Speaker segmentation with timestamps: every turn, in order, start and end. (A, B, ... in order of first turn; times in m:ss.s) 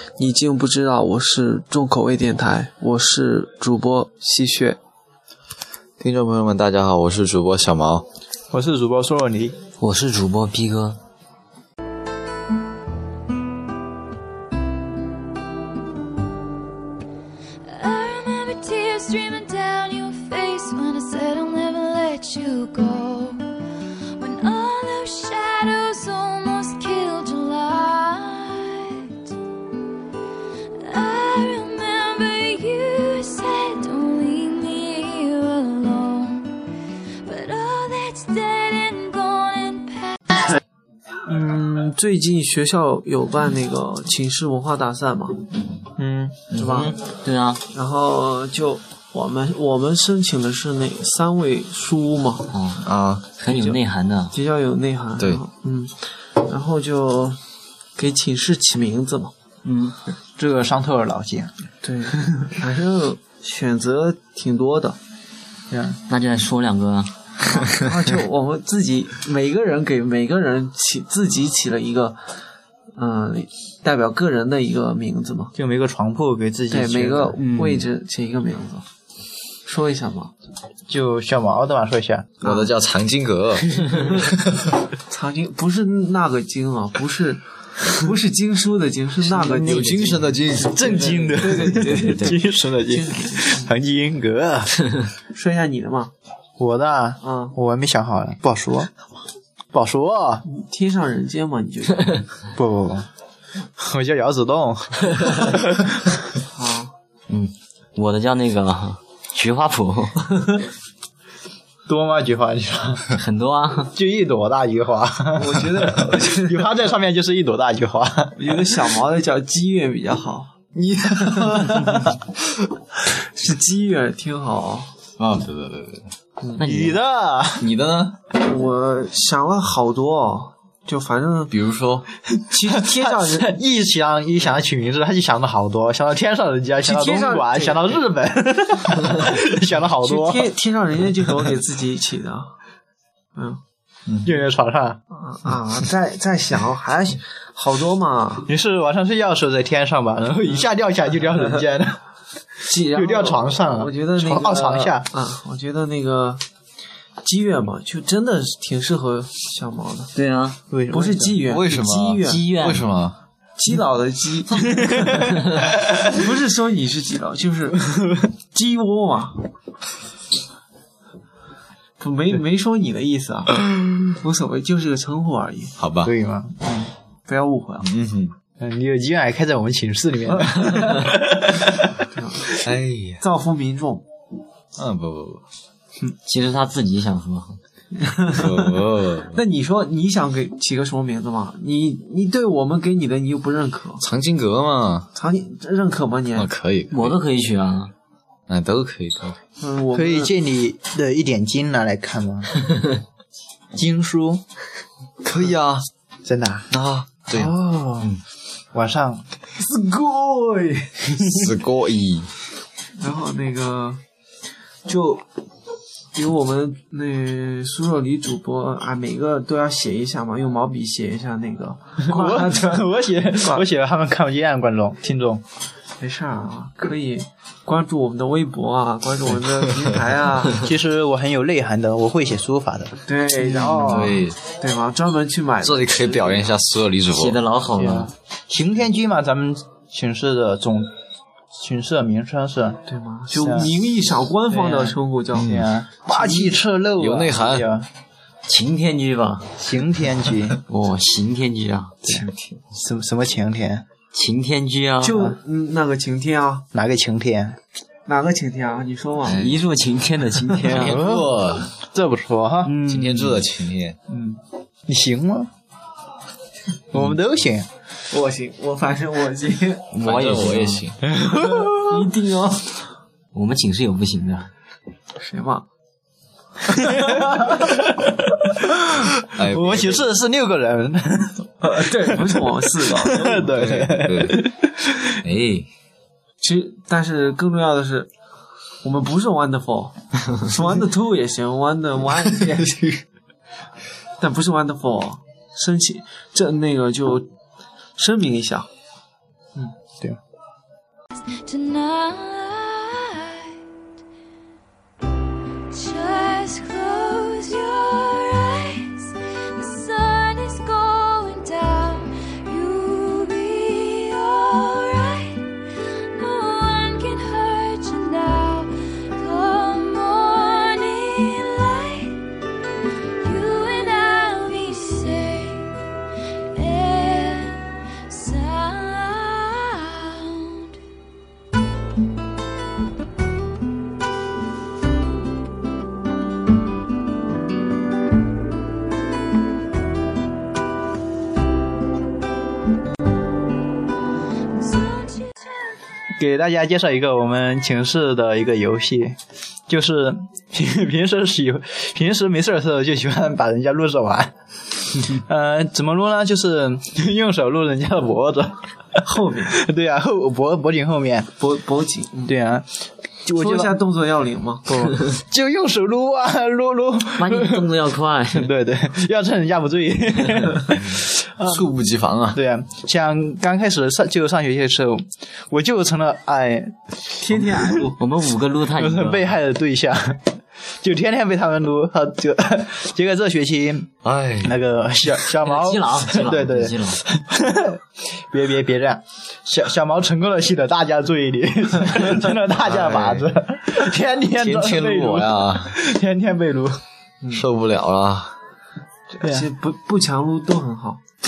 0:00.2-0:04.8 A
0:06.0-0:08.1 B
0:08.5-0:09.6 C
0:09.8-0:11.0 D
0:17.7-0:23.4 E
0:24.2-0:29.2 E
0:30.8-0:36.5 E
0:37.2-0:40.2 E
0:41.3-0:45.5 A
0:46.1-0:47.6 D
0:46.5-0:46.9 B
0:46.6-0:47.0 A
0:47.7-0:52.5 A
0:52.5-0:52.8 D
0:52.8-0:53.3 B
0:53.4-0:54.4 D
0:53.5-0:53.8 A
0:54.3-0:57.4 A
0:58.0-0:59.3 A
0:59.6-1:00.0 D
1:00.4-1:01.5 C
1:01.8-1:05.0 A
1:05.7-1:06.0 C
1:06.1-1:07.9 D
1:07.4-1:12.2 A
1:13.0-1:15.5 A
1:15.6-1:17.4 C
1:16.7-1:18.8 A
1:17.4-1:17.8 D
1:19.7-1:20.3 A
1:20.9-1:22.4 C
1:22.4-1:24.5 B
1:25.1-1:33.7 A
1:29.3-1:31.1 B
1:30.6-1:34.7 C
1:35.3-1:36.1 A
1:36.6-1:38.9 C
1:37.2-1:37.6 A
1:39.7-1:40.4 C
1:40.5-1:42.3 A
1:42.6-1:43.1 C
1:43.8-1:46.1 C
1:46.5-1:46.9 A
1:47.3-1:50.2 D
1:51.9-1:53.1 C
1:53.2-1:53.9 D
1:53.9-1:58.6 C
1:55.4-1:56.7 A
1:58.4-2:02.1 A
2:03.0-2:04.9 A
2:05.2-2:06.1 B
2:06.6-2:07.0 D
2:06.6-2:07.7 C
2:07.6-2:08.2 B
2:08.3-2:11.5 A
2:11.5-2:12.1 B
2:12.5-2:13.6 A
2:12.7-2:20.5 C
2:16.8-2:18.0 A
2:20.0-2:22.5 A
2:23.4-2:23.6 A
2:24.2-2:25.0 C
2:25.1-2:28.5 A
2:28.5-2:32.0 C
2:32.7-2:36.4 A
2:32.9-2:35.1 C
2:37.2-2:40.1 A
2:40.2-2:40.6 D
2:40.7-2:41.4 C
2:40.9-2:42.4 A
2:41.5-2:43.2 B
2:42.2-2:42.8 D
2:43.6-2:49.5 A
2:44.8-2:46.0 C
2:52.0-2:55.8 A
2:55.8-2:56.1 B
2:56.0-2:56.9 C
2:57.3-2:57.9 A
2:57.8-2:58.3 B
2:58.6-3:02.0 C
3:02.1-3:02.6 A
3:02.6-3:03.2 B
3:03.2-3:04.0 A
3:04.8-3:05.4 B
3:06.3-3:07.6 D
3:08.0-3:14.0 A
3:08.3-3:09.4 B
3:14.0-3:15.1 B
3:15.2-3:16.5 A
3:16.4-3:17.2 B
3:16.9-3:17.9 D
3:18.5-3:19.4 B
3:19.6-3:20.3 A
3:19.9-3:22.6 C
3:23.7-3:24.4 C
3:25.2-3:25.9 B
3:26.2-3:26.7 C
3:26.7-3:27.5 B
3:27.3-3:28.1 A
3:28.7-3:29.2 C
3:29.6-3:31.2 A
3:31.2-3:32.3 B
3:33.0-3:34.0 A
3:34.9-3:35.2 A
3:36.1-3:43.7 A
3:42.0-3:45.4 C
3:46.0-3:50.7 A
3:50.6-3:54.2 C
3:53.1-3:56.5 A
3:53.8-3:54.4 B
3:55.6-3:57.4 B
3:57.2-3:58.1 D
3:57.8-4:00.9 C
4:01.6-4:02.8 C
4:02.9-4:06.5 A
4:03.3-4:03.7 C
4:04.5-4:07.9 C
4:05.4-4:05.7 B
4:07.0-4:07.6 B
4:08.5-4:09.6 D
4:09.6-4:10.6 C
4:10.7-4:12.1 D
4:12.1-4:13.8 C
4:12.1-4:12.6 B
4:14.1-4:15.3 D
4:15.0-4:16.7 A
4:16.7-4:17.6 C
4:18.1-4:19.5 A
4:19.2-4:19.6 B
4:19.4-4:21.0 D
4:20.6-4:21.7 B
4:20.8-4:23.3 C
4:22.7-4:23.2 D
4:22.9-4:24.0 B
4:24.1-4:25.5 C
4:26.9-4:27.7 C
4:28.1-4:29.9 A
4:29.9-4:30.8 D
4:30.0-4:31.1 B
4:31.1-4:32.0 C
4:31.3-4:32.8 A
4:33.3-4:34.5 D
4:35.2-4:35.7 A
4:36.8-4:45.2 C
4:36.9-4:37.6 A
4:39.3-4:40.1 B
4:41.6-4:43.7 A
4:43.5-4:44.5 B
4:45.2-4:45.7 B
4:46.4-4:48.1 A
4:48.8-4:53.0 A
4:54.2-4:57.3 A
4:58.0-4:58.7 A
5:01.4-5:03.6 E
5:05.7-5:15.5 E
5:16.1-5:22.2 E
5:23.2-5:25.7 E
5:26.5-5:30.8 E
5:44.6-5:45.6 E
5:46.2-5:54.3 C
5:55.0-5:58.6 C
5:59.0-5:59.6 A
5:59.5-6:01.3 C
6:01.4-6:02.4 A
6:02.3-6:02.7 C
6:03.3-6:03.8 C
6:03.3-6:04.9 A
6:04.7-6:07.7 C
6:07.2-6:08.5 D
6:08.3-6:11.7 C
6:11.4-6:12.4 B
6:12.3-6:16.8 C
6:17.2-6:18.0 A
6:17.4-6:17.9 C
6:18.0-6:19.3 D
6:18.8-6:23.9 C
6:24.0-6:24.6 B
6:24.4-6:36.8 C
6:25.4-6:27.0 D
6:32.6-6:33.3 B
6:34.4-6:35.8 B
6:37.3-6:38.4 B
6:39.1-6:41.0 A